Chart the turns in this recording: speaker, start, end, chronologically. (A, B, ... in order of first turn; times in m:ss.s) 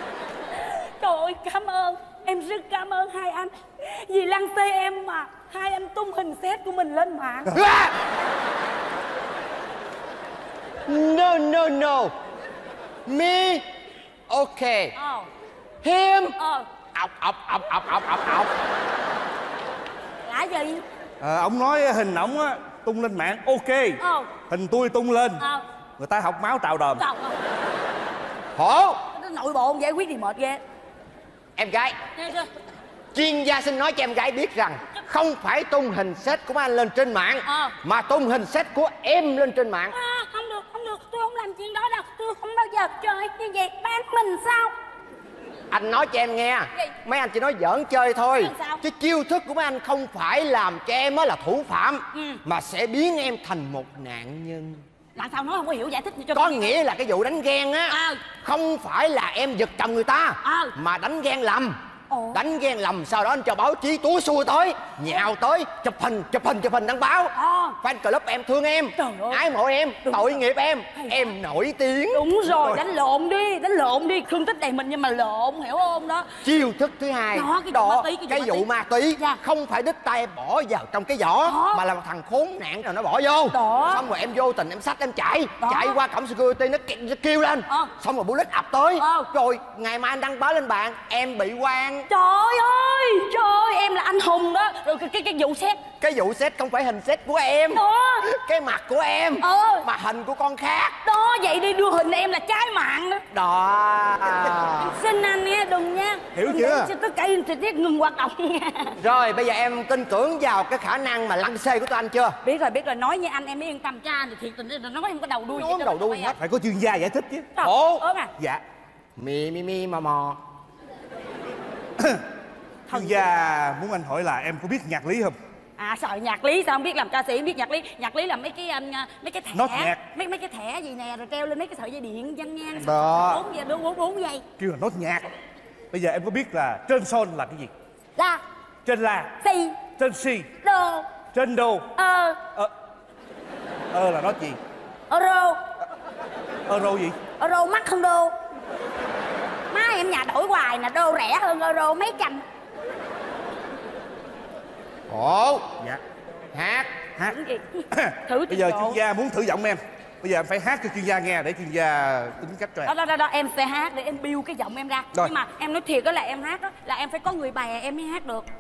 0:00.5-0:07.6 A
0:07.5-0:08.0 B
0:10.9-0:12.1 B
0:13.1-0:13.6 B
0:14.3-0:14.9 B
0:15.0-0:15.3 A
0:15.8-0:16.3 B
0:16.4-0:16.7 A
0:17.0-0:18.5 B
0:20.2-0:20.8 A
0:21.2-0:25.4 C
0:24.0-0:24.3 A
0:26.0-0:27.0 C
0:27.0-0:27.4 A
0:28.6-0:29.0 B
0:29.1-0:30.6 A
0:31.6-0:32.0 B
0:32.2-0:32.5 A
0:33.1-0:40.0 B
0:37.5-0:37.7 A
0:39.9-0:44.7 A
0:45.7-0:54.8 B
0:48.4-0:48.8 A
0:52.1-0:52.4 A
0:55.2-0:56.8 A
0:56.3-1:01.8 B
0:57.9-0:58.2 A
1:00.4-1:00.7 A
1:02.1-1:02.4 A
1:02.3-1:12.3 B
1:07.4-1:07.8 A
1:09.0-1:09.4 A
1:10.0-1:10.4 A
1:10.9-1:11.3 A
1:12.1-1:16.3 A
1:16.4-1:32.1 B
1:17.3-1:18.7 A
1:21.4-1:21.8 A
1:23.5-1:24.0 A
1:25.6-1:26.0 A
1:29.0-1:29.3 A
1:32.1-1:35.8 A
1:36.0-1:41.0 B
1:37.7-1:38.3 A
1:39.4-1:39.8 A
1:41.0-1:43.2 A
1:43.3-1:45.0 B
1:44.8-1:49.0 A
1:46.4-1:46.9 C
1:49.0-1:52.4 B
1:52.4-1:56.4 A
1:55.6-1:56.4 B
1:56.4-1:57.6 C
1:57.6-1:58.3 A
1:57.6-1:58.0 B
1:58.4-1:58.6 C
1:59.2-2:00.4 B
2:02.0-2:02.2 C
2:02.9-2:05.4 C
2:02.9-2:03.2 A
2:05.8-2:14.4 A
2:09.5-2:10.0 C
2:12.8-2:13.4 C
2:14.6-2:15.3 C
2:15.9-2:17.7 C
2:18.2-2:18.4 A
2:18.8-2:19.4 C
2:19.4-2:19.8 A
2:20.0-2:20.5 C
2:20.6-2:21.1 A
2:21.3-2:21.9 C
2:22.0-2:22.4 A
2:23.9-2:24.6 C
2:25.1-2:25.6 A
2:26.7-2:27.2 C
2:27.4-2:28.4 A
2:29.7-2:32.4 A
2:35.1-2:35.8 B
2:36.5-2:37.2 B
2:37.2-2:39.0 A
2:37.9-2:42.9 C
2:42.8-2:48.5 A